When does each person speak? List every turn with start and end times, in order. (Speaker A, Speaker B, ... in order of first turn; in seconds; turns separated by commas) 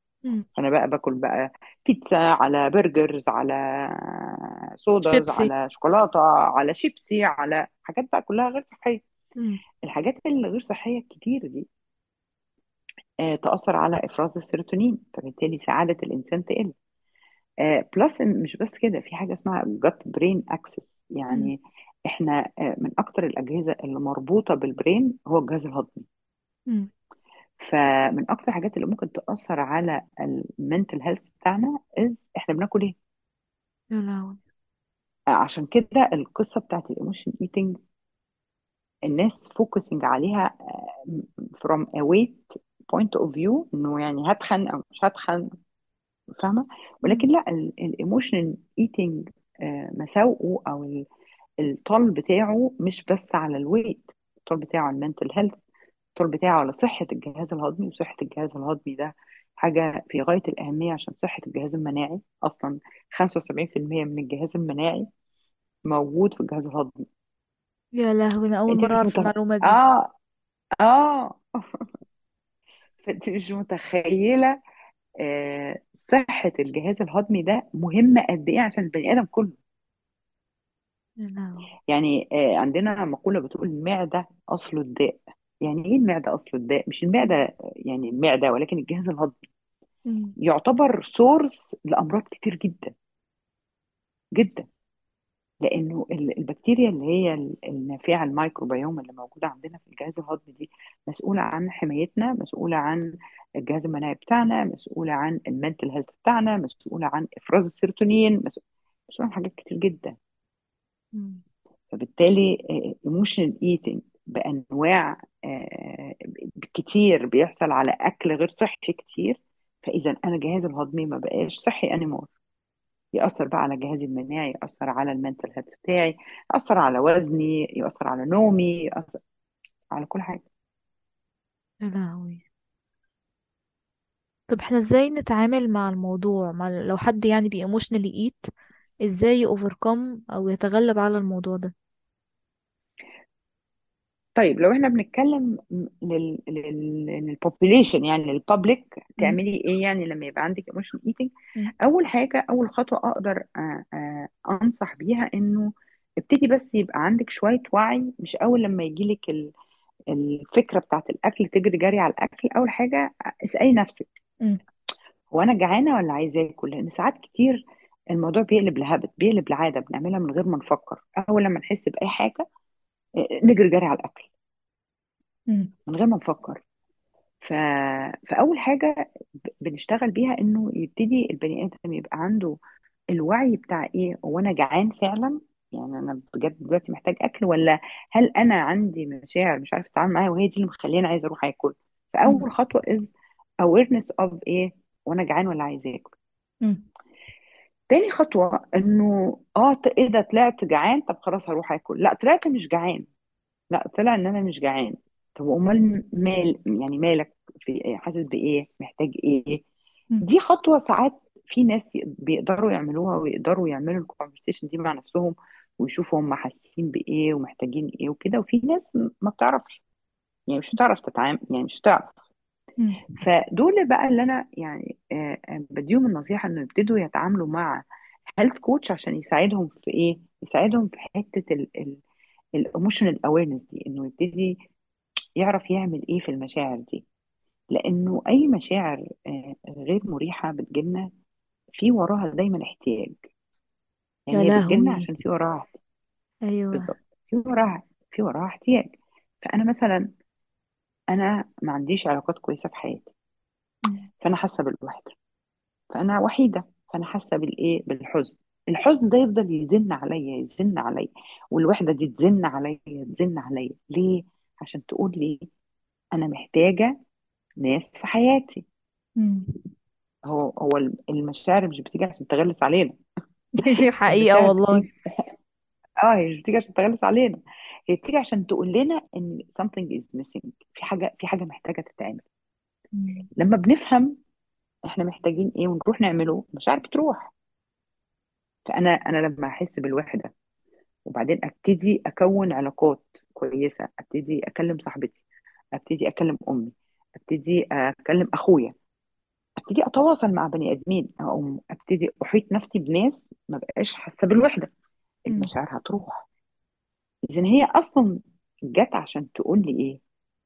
Speaker A: 0.6-9.0, Speaker B: 5.1-5.5, Speaker A: 9.8-11.7, Speaker A: 13.2-16.7, Speaker A: 17.6-21.6, Speaker A: 22.1-26.1, Speaker A: 27.6-33.0, Speaker B: 33.9-34.4, Speaker A: 35.4-37.8, Speaker A: 39.1-45.5, Speaker A: 46.4-51.0, Speaker A: 51.6-55.5, Speaker A: 56.2-65.1, Speaker A: 65.9-67.0, Speaker B: 68.0-69.8, Speaker A: 68.7-70.1, Speaker A: 70.8-71.8, Speaker A: 73.0-74.5, Speaker A: 75.2-79.6, Speaker B: 81.2-81.7, Speaker A: 81.9-89.4, Speaker B: 90.1-90.3, Speaker A: 90.4-92.9, Speaker A: 94.3-94.7, Speaker A: 95.6-103.1, Speaker A: 103.6-110.2, Speaker B: 111.1-111.4, Speaker A: 111.9-122.3, Speaker A: 123.2-129.2, Speaker A: 129.9-130.4, Speaker B: 131.8-132.4, Speaker B: 134.5-138.4, Speaker B: 139.0-141.7, Speaker A: 144.4-155.7, Speaker A: 156.2-159.5, Speaker A: 160.1-164.1, Speaker A: 165.3-167.6, Speaker A: 168.1-172.4, Speaker A: 173.5-174.3, Speaker A: 175.9-176.6, Speaker A: 177.4-178.9, Speaker A: 179.6-182.6, Speaker A: 183.1-193.1, Speaker A: 193.6-196.1, Speaker A: 197.9-203.1, Speaker A: 203.7-209.6, Speaker A: 210.2-219.8, Speaker A: 220.5-222.1, Speaker B: 222.8-223.1, Speaker A: 223.2-227.8, Speaker A: 228.4-232.0, Speaker A: 232.6-234.5, Speaker A: 235.4-237.0, Speaker A: 237.7-241.1, Speaker A: 241.8-243.2, Speaker A: 244.3-245.7, Speaker B: 244.3-245.1, Speaker B: 246.5-246.9, Speaker A: 246.7-250.1, Speaker A: 251.1-253.1, Speaker A: 254.2-255.1, Speaker A: 255.9-265.4, Speaker A: 266.1-266.9, Speaker A: 267.6-268.6, Speaker B: 269.2-269.6, Speaker A: 270.3-272.9, Speaker B: 273.6-274.9, Speaker A: 274.1-275.3, Speaker A: 276.0-282.2, Speaker B: 282.9-283.3, Speaker A: 283.4-284.1, Speaker A: 284.9-287.3, Speaker A: 288.7-290.3, Speaker A: 291.1-295.2, Speaker A: 295.8-298.7, Speaker A: 299.6-304.7, Speaker A: 305.3-306.2, Speaker A: 307.3-308.2, Speaker A: 308.7-310.0